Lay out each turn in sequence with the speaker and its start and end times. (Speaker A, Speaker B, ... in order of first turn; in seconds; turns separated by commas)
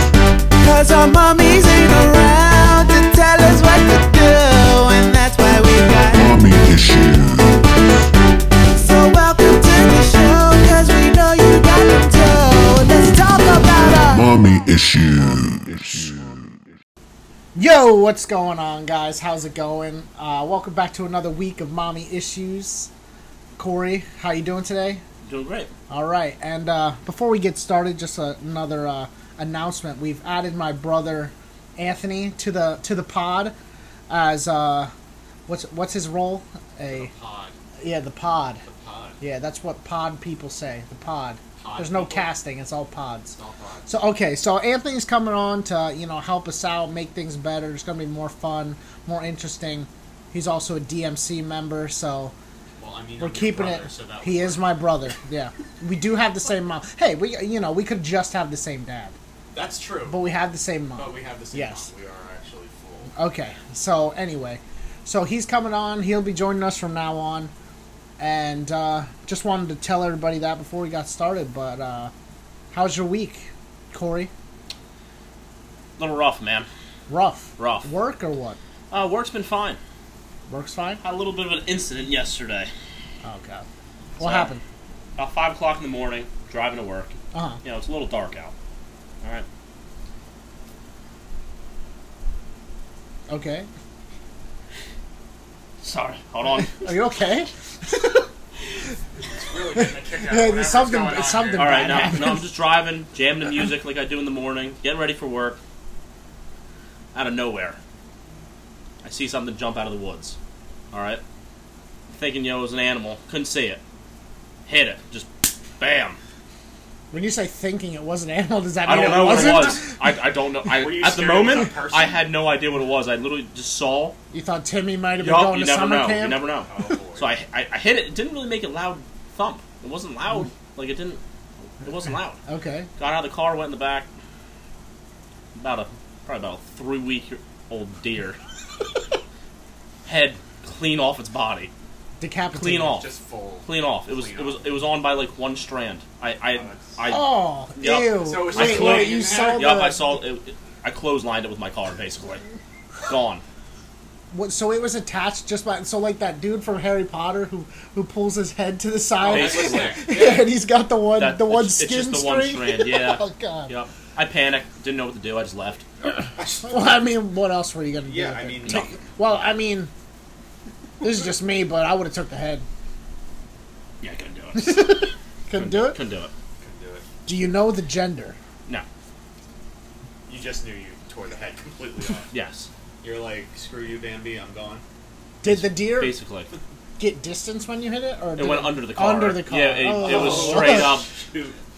Speaker A: 0.6-6.2, Speaker B: 6.1-7.8, Speaker A: 8.8-14.3, Speaker B: 14.1-16.8, Speaker C: 17.5-22.9, Speaker C: 23.6-25.0, Speaker D: 25.2-25.7, Speaker C: 25.9-33.5, Speaker C: 34.1-34.9, Speaker C: 35.5-37.1, Speaker E: 36.8-37.5, Speaker C: 37.8-38.6, Speaker E: 38.6-39.2, Speaker C: 39.2-43.3, Speaker E: 41.6-42.3, Speaker E: 43.3-43.9, Speaker C: 43.9-52.3, Speaker E: 52.8-54.8, Speaker C: 53.2-59.1, Speaker E: 59.5-60.2, Speaker C: 60.1-61.9, Speaker E: 61.0-63.1, Speaker C: 63.1-67.5, Speaker C: 68.2-72.1, Speaker C: 72.7-74.3, Speaker D: 76.0-76.7, Speaker C: 77.1-78.6, Speaker D: 77.6-77.9, Speaker D: 78.9-79.8, Speaker C: 80.5-81.0, Speaker D: 81.0-82.7, Speaker C: 83.2-83.6, Speaker C: 84.2-84.6, Speaker D: 84.2-84.5, Speaker D: 85.2-88.5, Speaker C: 87.3-87.6, Speaker C: 93.3-93.7, Speaker D: 95.8-96.9, Speaker C: 96.6-98.2, Speaker E: 99.3-102.0, Speaker C: 99.8-102.5, Speaker D: 101.5-105.6, Speaker D: 107.1-107.8, Speaker D: 109.0-110.4, Speaker D: 110.9-111.2, Speaker D: 112.1-113.8, Speaker D: 114.7-116.2, Speaker C: 117.1-119.9, Speaker D: 118.8-124.2, Speaker E: 119.2-119.6, Speaker E: 120.7-122.2, Speaker C: 124.3-126.4, Speaker D: 125.2-132.4, Speaker E: 126.6-127.3, Speaker C: 132.4-132.9, Speaker D: 133.0-134.1, Speaker D: 135.6-138.4, Speaker D: 140.0-141.7, Speaker C: 142.2-143.0, Speaker D: 142.5-143.1, Speaker E: 142.8-144.7, Speaker D: 143.6-152.4, Speaker E: 146.5-147.0, Speaker C: 147.1-150.2, Speaker E: 148.1-149.8, Speaker D: 153.1-153.4, Speaker C: 154.3-163.7, Speaker D: 159.2-160.0, Speaker E: 159.2-160.5, Speaker D: 161.2-165.9, Speaker C: 166.6-169.9, Speaker E: 168.1-168.9, Speaker D: 168.7-168.9, Speaker C: 171.0-172.6, Speaker D: 174.0-176.3, Speaker C: 174.5-176.0, Speaker E: 176.6-177.1, Speaker C: 177.2-178.4, Speaker E: 180.3-182.3, Speaker D: 182.3-182.7, Speaker E: 183.0-184.8, Speaker C: 185.4-186.1, Speaker D: 185.4-186.5, Speaker C: 187.0-190.9, Speaker D: 188.3-191.1, Speaker E: 189.9-191.6